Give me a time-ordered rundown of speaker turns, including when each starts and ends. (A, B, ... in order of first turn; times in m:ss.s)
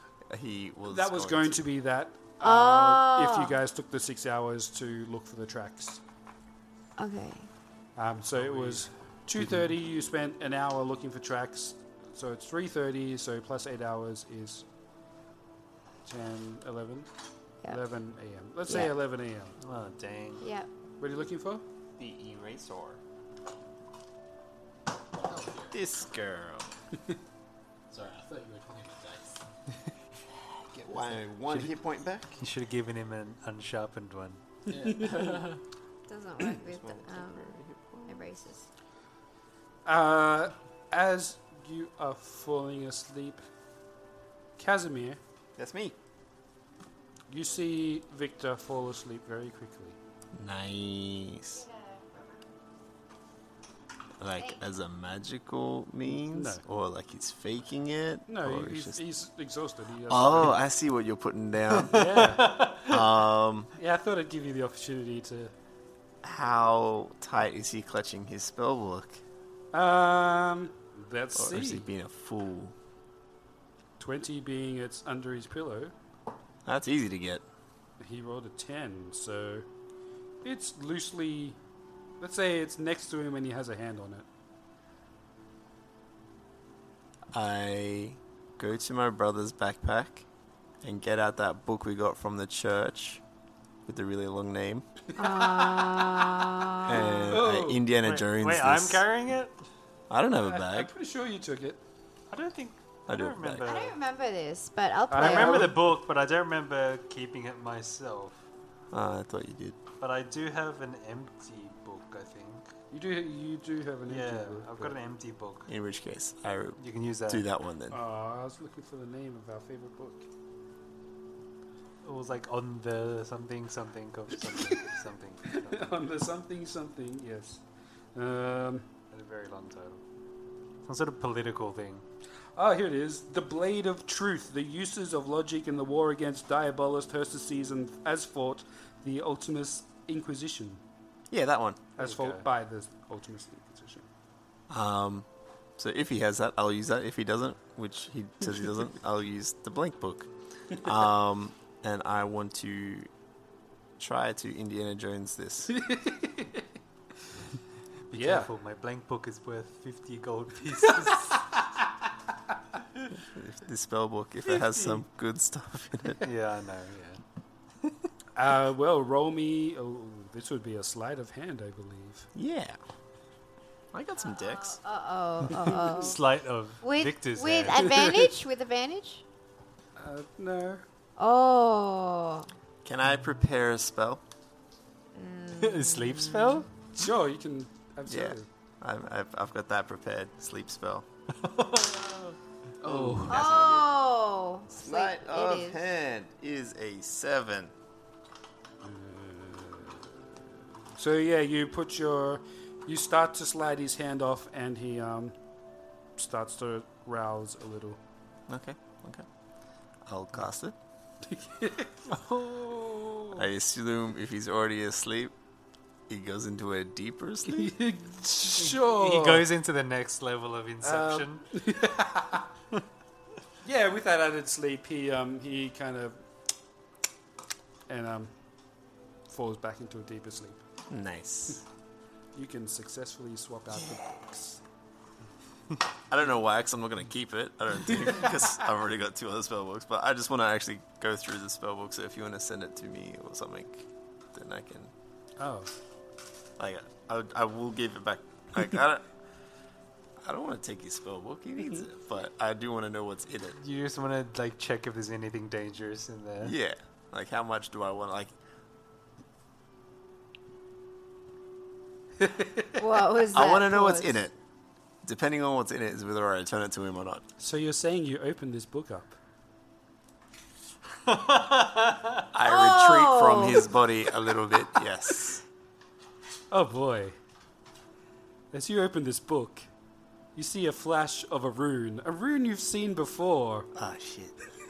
0:00.3-0:01.6 A
0:00.9-0:06.0 B
0:02.4-0:03.6 C
0:07.0-0:07.5 C
0:08.0-0:14.6 B
0:08.3-0:08.8 D
0:16.0-0:17.1 B
0:17.6-0:19.6 B
0:18.6-0:18.9 C
0:19.6-0:20.4 D
0:20.4-0:20.7 C
0:21.0-0:21.6 B
0:22.0-0:23.0 A
0:25.2-0:25.8 E
0:25.7-0:26.7 A
0:27.9-0:29.4 E
0:30.4-0:32.4 A
0:31.5-0:31.8 D
0:32.4-0:34.4 D
0:34.7-0:35.5 B
0:34.7-0:35.6 E
0:36.1-0:37.5 C
0:36.5-0:38.2 A
0:38.0-0:38.7 C
0:39.8-0:43.4 B
0:44.6-0:45.2 B
0:45.6-0:46.0 A
0:47.3-0:50.0 B
0:50.3-0:51.6 A
0:51.5-0:52.2 C
0:54.2-0:59.0 A
0:54.4-0:54.6 C
0:56.3-0:56.6 B
0:58.3-1:00.6 B
1:00.1-1:02.3 A
1:01.8-1:03.0 D
1:01.9-1:02.7 B
1:02.8-1:03.7 A
1:03.8-1:05.5 B
1:06.2-1:09.2 A
1:09.7-1:11.9 B
1:11.3-1:12.7 A
1:14.0-1:15.9 B
1:16.6-1:17.4 A
1:18.0-1:19.6 B
1:20.4-1:21.6 B
1:22.2-1:24.2 B
1:27.3-1:30.2 A
1:30.8-1:33.2 A
1:33.8-1:34.9 A
1:35.2-1:37.4 C
1:35.4-1:36.0 B
1:36.8-1:39.0 A
1:37.3-1:37.8 B
1:38.0-1:39.5 D
1:40.1-1:40.9 A
1:40.4-1:41.8 B
1:42.3-1:44.0 D
1:43.1-1:43.7 A
1:43.6-1:45.7 C
1:45.1-1:45.8 B
1:45.2-1:48.4 D
1:48.9-1:49.8 A
1:50.0-1:52.7 D
1:52.9-1:55.0 B
1:54.0-1:55.7 D
1:55.7-1:58.0 A
1:56.8-1:57.4 D
1:57.9-2:00.3 B
2:02.0-2:05.9 D
2:05.5-2:07.6 B
2:08.1-2:08.9 B
2:09.1-2:10.0 D
2:10.8-2:12.0 D
2:12.6-2:20.8 B
2:21.3-2:21.9 A
2:22.0-2:24.1 B
2:22.0-2:22.5 D
2:24.7-2:25.3 A
2:25.8-2:33.1 A
2:34.0-2:35.7 A
2:35.7-2:36.6 B
2:38.1-2:41.3 D
2:38.1-2:38.5 B
2:41.1-2:41.4 B
2:43.3-2:46.2 A
2:44.5-2:45.0 D
2:46.2-2:47.2 D
2:48.4-2:52.3 B
2:52.3-2:52.8 A
2:53.9-2:54.8 A
2:54.2-2:56.2 C
2:56.0-2:57.9 D
2:56.8-2:59.2 C
2:57.8-2:58.2 B
3:00.0-3:00.8 B
3:01.2-3:02.5 C
3:02.8-3:04.2 A
3:05.1-3:06.3 C
3:05.6-3:06.7 D
3:06.9-3:08.5 B
3:08.1-3:11.0 A
3:11.4-3:12.4 D
3:12.8-3:14.0 A
3:12.8-3:13.3 E
3:13.3-3:15.8 C
3:14.8-3:17.7 A
3:18.8-3:20.1 B
3:21.0-3:25.3 B
3:26.2-3:28.0 B
3:28.5-3:29.2 A
3:30.1-3:30.7 A
3:31.3-3:33.4 B
3:33.3-3:35.3 A
3:36.1-3:37.7 A
3:37.5-3:39.4 B
3:38.5-3:41.5 D
3:40.8-3:42.4 B
3:43.6-3:46.2 B
3:47.9-3:48.3 B
3:49.3-3:50.6 B
3:50.9-3:51.6 A
3:52.3-3:54.6 B
3:53.7-3:54.2 A
3:56.1-4:04.9 A
4:05.4-4:05.7 B
4:06.6-4:09.0 A
4:10.2-4:13.6 A
4:13.6-4:16.5 D
4:16.4-4:18.3 A
4:22.2-4:22.8 B
4:22.8-4:24.2 C
4:23.3-4:24.3 A
4:25.0-4:27.2 A
4:27.4-4:29.2 B
4:31.0-4:32.2 D
4:32.3-4:35.4 A
4:32.4-4:33.7 C
4:36.5-4:37.1 B
4:38.5-4:39.7 B
4:40.4-4:43.7 B
4:43.7-4:44.4 A